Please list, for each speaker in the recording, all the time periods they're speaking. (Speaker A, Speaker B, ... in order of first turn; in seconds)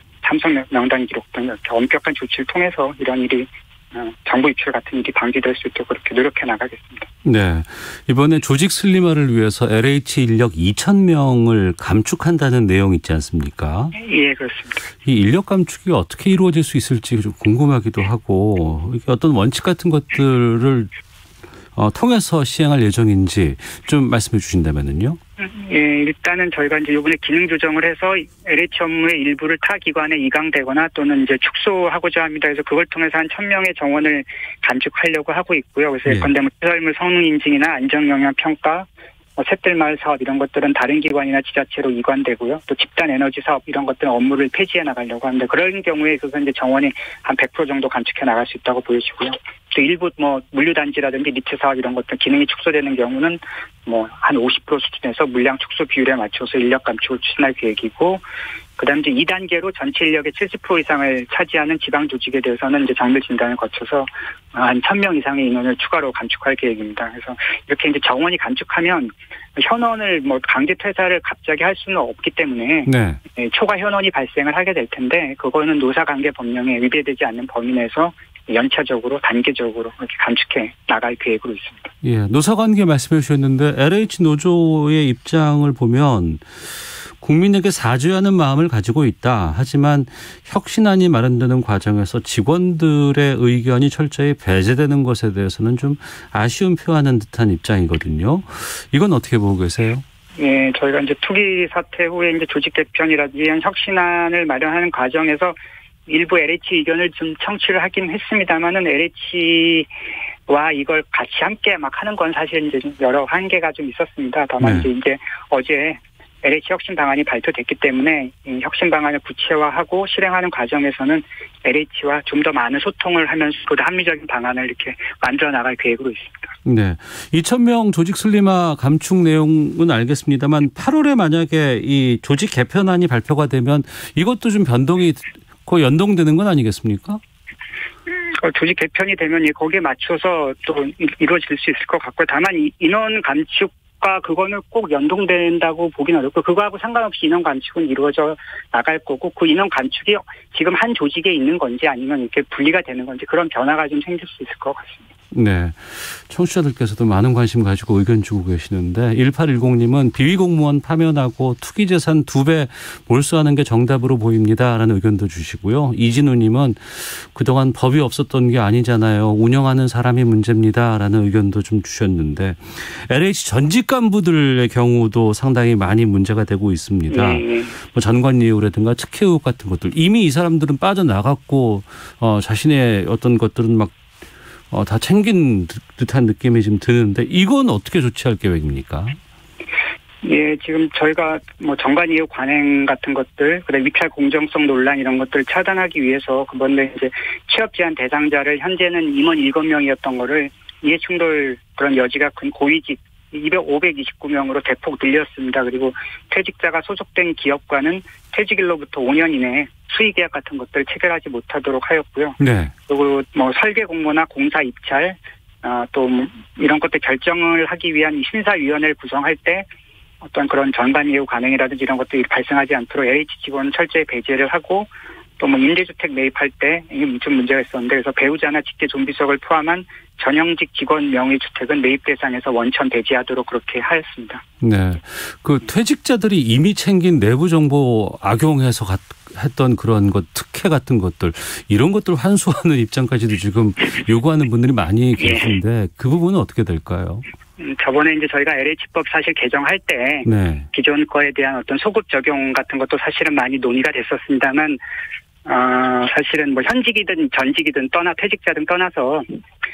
Speaker A: 0.2-7.1, 13.9-14.9, 25.4-58.2, 58.8-81.9, 100.4-109.9, 110.5-126.5, 138.1-155.1, 177.1-177.8, 190.2-219.7, 220.2-234.4, 245.2-245.5, 247.6-254.8, 255.4-259.4
Speaker B: 7.2-13.9, 15.1-20.9, 21.8-25.2, 72.9-73.2, 82.0-100.0, 114.6-114.9, 126.7-137.2, 155.3-183.9, 184.7-189.2, 212.4-212.7, 234.6-247.2, 250.2-250.7